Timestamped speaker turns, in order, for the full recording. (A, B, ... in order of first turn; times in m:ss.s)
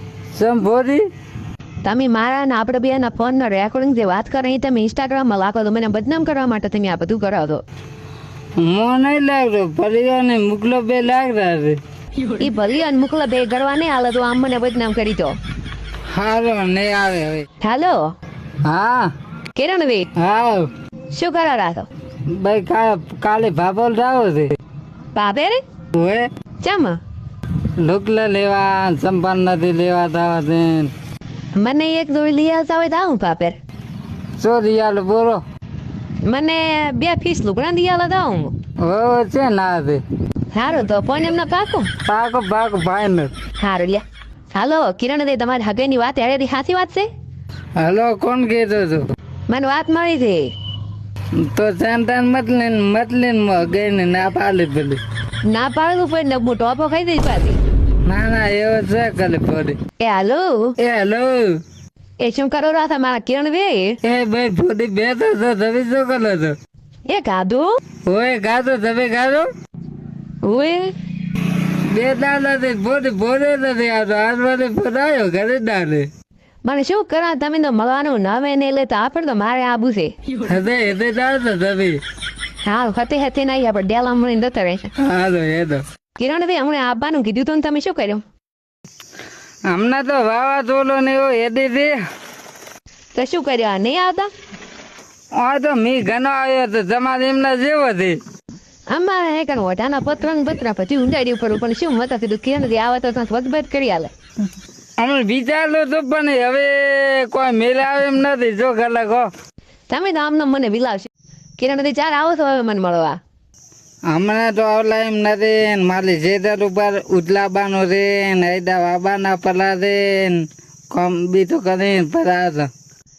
0:00.4-0:01.0 A
0:01.8-0:07.6 B
0:08.6-0:11.8 A
0:12.3-0:15.4 B
0:16.1-0:17.5 A
0:17.6-0:18.1 B
0:18.6-0:19.1 A
0:19.6-0:20.1 B
0:20.2-0:20.7 A
0:21.1-0:21.9 B
0:22.3-0:24.5 A
0:25.2-0:25.6 B
0:25.9-0:26.3 A
0:26.6-0:27.0 B
0:27.8-0:30.9 A
0:31.6-0:33.6 B
0:34.4-0:35.4 A
0:36.2-0:38.6 B
0:38.8-0:40.0 A
0:40.5-0:41.9 B
0:42.1-0:43.3 A
0:43.6-0:47.1 B
0:47.8-0:49.1 A
0:49.5-0:50.5 B
0:51.3-0:55.0 A
0:55.5-0:57.6 B
0:58.1-0:59.8 A
1:00.0-1:00.8 B
1:00.8-1:01.6 A
1:02.2-1:04.0 B
1:04.0-1:06.6 A
1:07.1-1:07.8 B
1:08.1-1:09.5 A
1:10.4-1:10.9 B
1:11.9-1:16.1 A
1:16.6-1:20.3 B
1:20.4-1:22.0 A
1:22.6-1:24.9 B
1:25.0-1:25.8 A
1:26.2-1:28.2 B
1:29.7-1:32.0 A
1:33.1-1:34.3 B
1:35.4-1:38.2 A
1:38.9-1:44.1 B
1:45.0-1:49.3 A
1:49.9-1:53.2 B
1:54.1-2:02.7 A